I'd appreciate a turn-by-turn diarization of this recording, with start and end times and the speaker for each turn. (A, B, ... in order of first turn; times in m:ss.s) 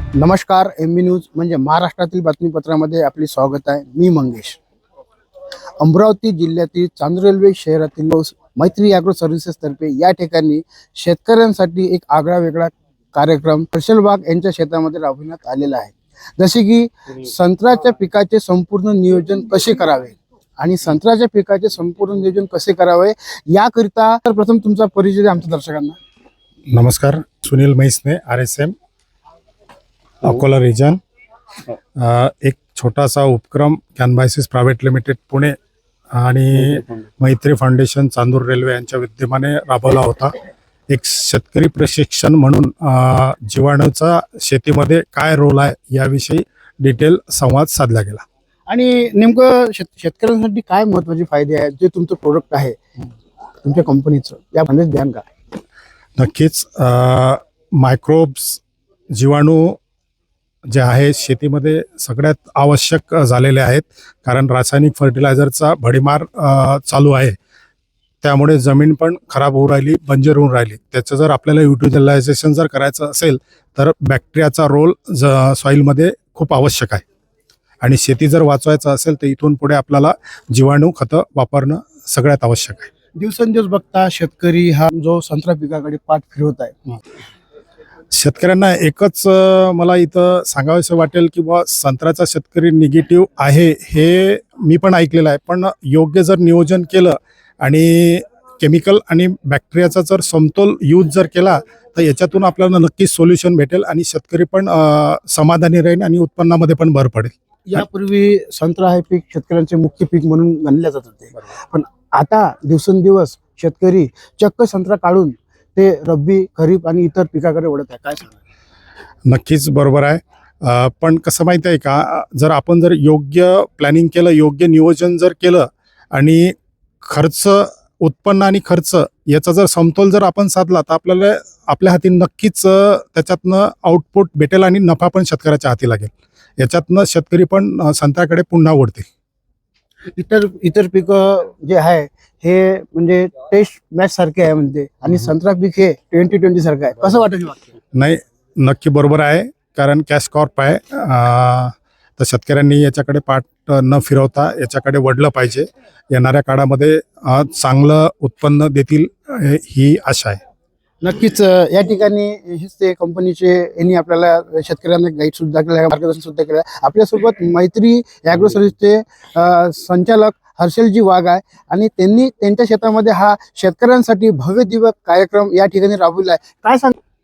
0:00.2-0:04.6 A
0:05.8-0:26.0 A
0:26.7-0:28.7 B
0:30.2-0:31.0 B
0:32.0-0:35.6 B
0:36.1-0:40.3 B
0:40.9-0:48.2 B
0:48.7-0:52.8 A
0:53.6-0:55.2 A
0:56.2-0:58.6 B
0:59.1-0:59.8 B
1:00.7-1:07.4 B
1:08.2-1:17.0 B
1:17.8-1:22.9 B
1:23.2-1:26.8 A
1:28.1-1:47.8 B
1:47.7-1:58.4 A
1:59.3-2:19.1 B
2:20.1-2:27.7 A
2:28.0-2:40.4 B
2:41.0-2:57.0 A